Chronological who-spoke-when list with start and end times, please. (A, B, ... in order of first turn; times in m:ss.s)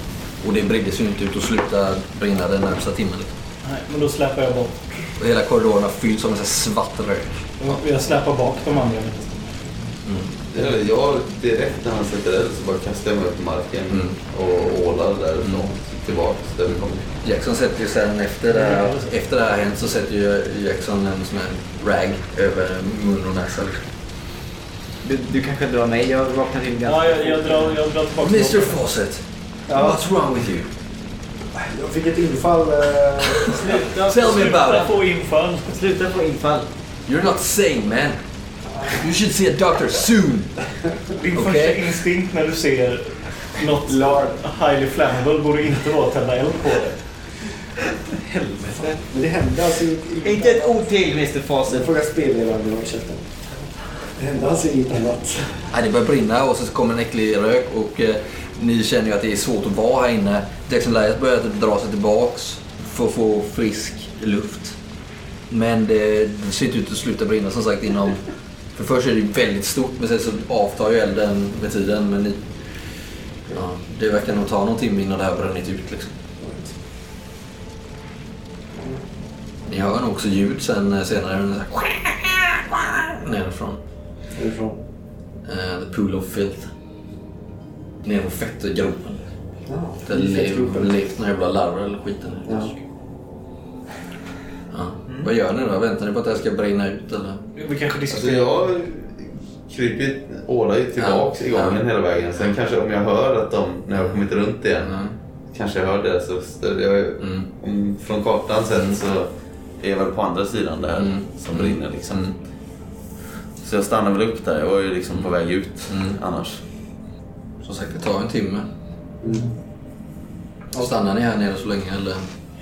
0:00.4-0:03.3 A
0:03.6-0:05.1 B
0:05.2-0:07.8 A
0:07.6-0:09.9 B
0:10.0-0:10.3 A
0:10.5-0:17.0 C
0:13.9-0:14.2 A
0:15.4-0:15.7 A
0:16.7-0:23.9 A
0:18.5-0:19.1 B
0:25.0-0:27.8 D
0:26.8-0:28.8 B
0:28.2-0:30.7 A
0:29.7-0:30.0 E
0:31.6-0:33.7 E
0:33.3-0:35.0 A
0:33.5-0:35.8 B
0:35.7-0:36.7 D
0:37.1-0:38.2 A
0:38.8-0:40.6 A
0:41.2-0:47.0 B
0:41.3-0:41.9 A
0:43.8-0:44.4 E
0:48.3-0:49.0 D
0:48.4-0:48.8 B
0:49.0-0:50.7 E
0:50.2-0:51.9 D
0:51.7-0:53.3 E
0:54.2-0:55.7 E
0:55.7-1:04.8 A
1:05.5-1:12.4 A
1:13.5-1:16.2 A
1:16.4-1:16.7 E
1:18.7-1:19.0 E
1:19.7-1:23.8 A
1:24.4-1:24.8 E
1:25.4-1:26.7 A
1:28.0-1:29.2 A
1:29.7-1:30.9 E
1:30.1-1:32.8 A
1:34.7-1:37.4 A
1:37.6-1:38.6 B
1:38.1-1:45.0 C
1:41.0-1:41.8 A
1:44.8-1:45.1 A
1:45.5-1:52.3 C
1:47.2-1:47.5 A
1:48.7-1:49.0 A
1:51.0-1:52.4 A
1:53.6-1:56.6 C
1:55.9-1:56.2 A
1:57.6-1:58.7 A
1:59.2-1:59.5 E
2:00.7-2:02.3 A